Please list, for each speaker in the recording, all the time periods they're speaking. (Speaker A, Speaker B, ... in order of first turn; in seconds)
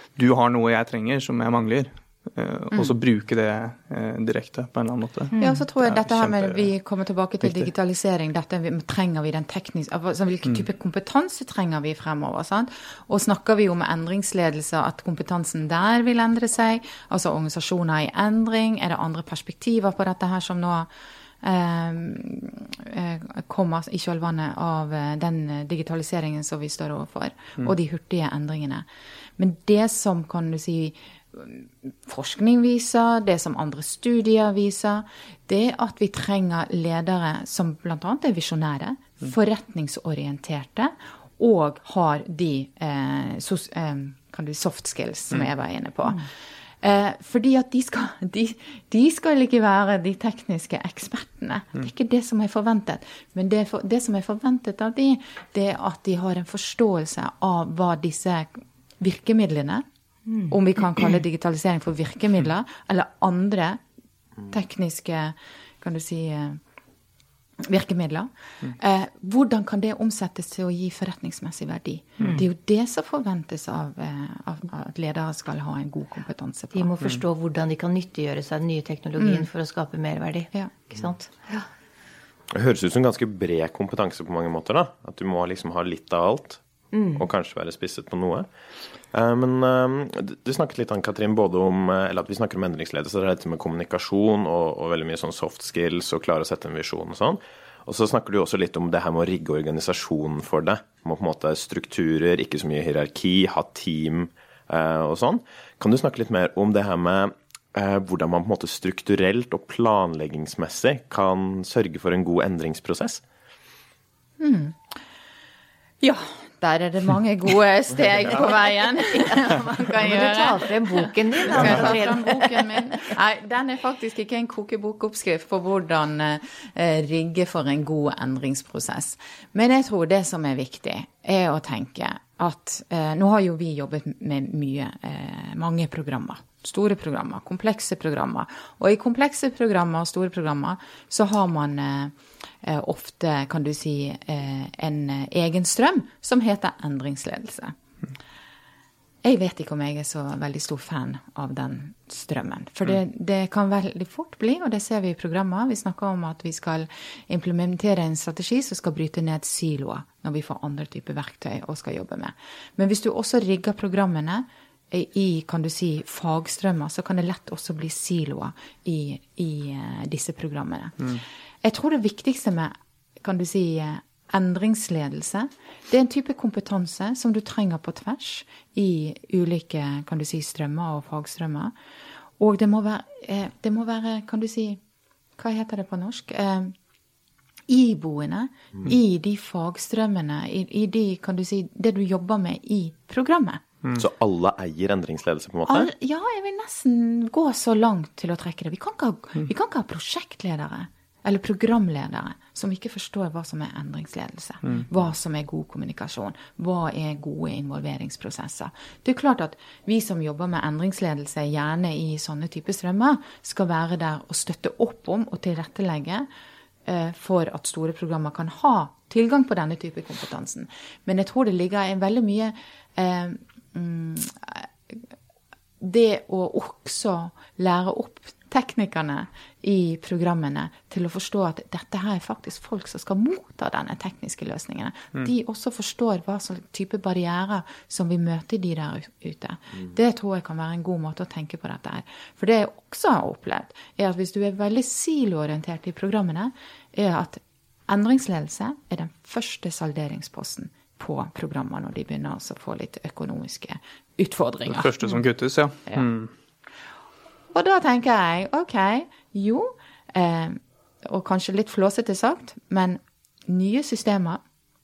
Speaker A: 0.1-6.7, 7.4-7.7, 254.7-256.3
Speaker B: 5.3-5.6, 60.3-60.5, 72.2-72.4, 76.7-81.6, 86.9-87.2, 119.8-122.6
Speaker C: 5.4-20.9, 21.4-28.8, 29.4-46.3, 46.8-59.8, 60.5-63.8, 64.5-66.6, 67.6-76.9, 79.2-79.5, 114.4-114.8, 116.0-147.7, 149.2-181.7, 182.4-184.8, 185.4-186.7, 187.7-193.6, 195.7-216.3, 216.8-225.0, 225.8-254.9, 257.5-264.4
Speaker D: 82.5-86.6, 87.1-88.5, 89.1-113.2, 193.9-195.9